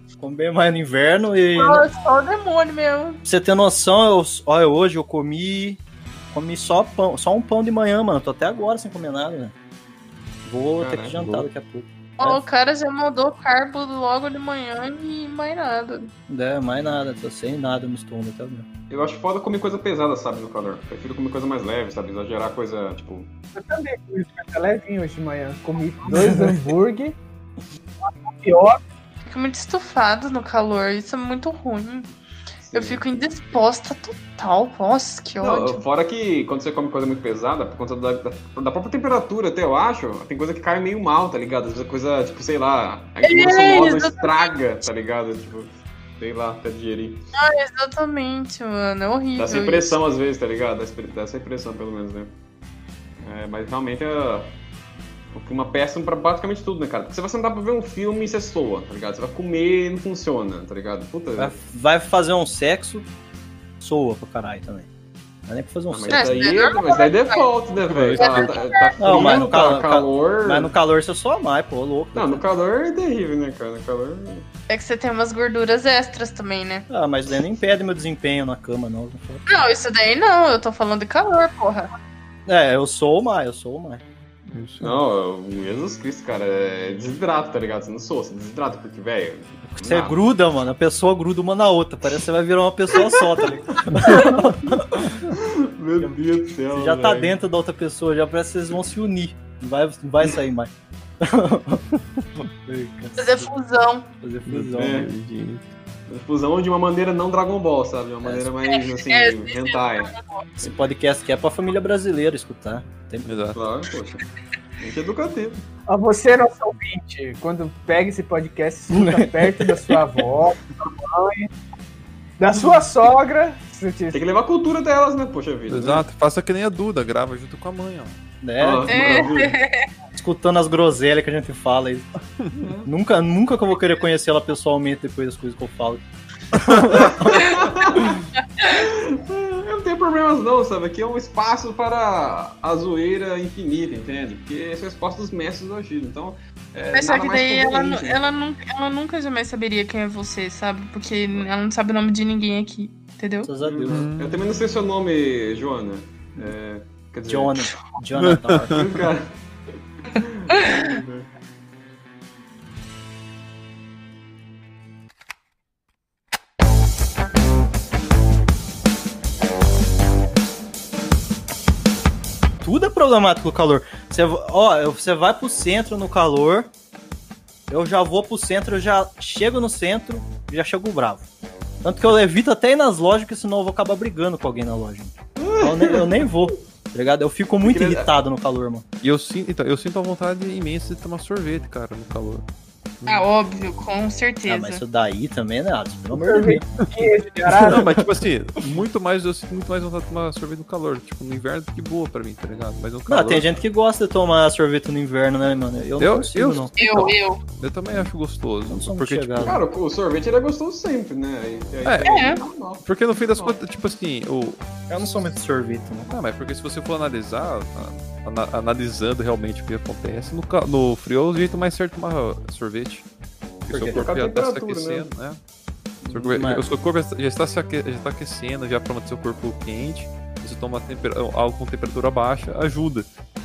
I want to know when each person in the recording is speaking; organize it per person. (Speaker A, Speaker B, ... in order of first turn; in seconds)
Speaker A: 0.2-1.8, 3.2-5.8, 6.3-9.5, 10.4-12.4, 16.3-18.7, 26.2-26.5, 61.4-63.1, 63.8-64.9, 65.5-66.5, 69.0-72.5, 76.9-79.4, 82.5-84.0, 89.7-94.8, 96.7-103.5, 104.2-105.0, 108.2-108.5, 110.6-113.4, 118.9-119.6, 128.4-129.0, 130.1-132.1, 132.8-137.7, 153.4-154.1, 157.3-158.8, 172.6-176.7, 177.7-181.3, 181.8-188.8, 194.5-196.7, 203.1-206.7, 208.7-209.6, 214.9-216.1, 223.7-224.1, 226.3-226.7
Speaker B: 1.6-3.2, 12.2-16.1, 29.2-32.1, 32.7-35.8, 43.2-44.5, 47.3-50.0, 66.1-67.5, 68.2-68.9, 74.7-76.8, 79.5-81.9, 103.2-104.1, 108.6-110.5, 128.9-129.9, 137.3-137.6, 138.4-138.9, 146.9-153.5, 193.1-194.8, 206.8-207.4, 212.0-212.4
Speaker C: 10.8-11.5, 18.9-23.3, 32.6-33.0, 35.4-47.2, 49.4-52.3, 53.2-54.5, 55.3-61.6, 65.9-70.8, 72.1-74.5, 84.8-90.2, 92.9-93.2, 93.7-94.3, 95.3-97.3, 104.8-105.1, 106.1-110.1, 113.5-114.2, 114.8-115.7, 124.1-126.0, 128.6-129.6, 132.6-132.9, 137.3-138.2, 138.7-148.2, 153.6-157.6, 158.7-159.3, 160.1-161.3, 185.4-186.3, 187.6-188.2, 209.4-213.6, 223.7-225.1, 226.0-226.4
Speaker D: 23.6-27.2, 28.4-28.8, 115.9-121.5, 122.4-124.2, 196.1-198.0
Speaker E: 67.8-68.6, 84.5-85.0, 93.9-94.5, 104.5-105.6, 113.2-113.6, 125.7-128.2, 153.9-154.4, 158.2-158.9, 189.0-192.4, 193.0-193.3, 197.6-203.5, 206.0-209.6, 211.8-212.1, 212.8-214.6, 216.1-223.1, 223.7-225.4, 226.1-233.1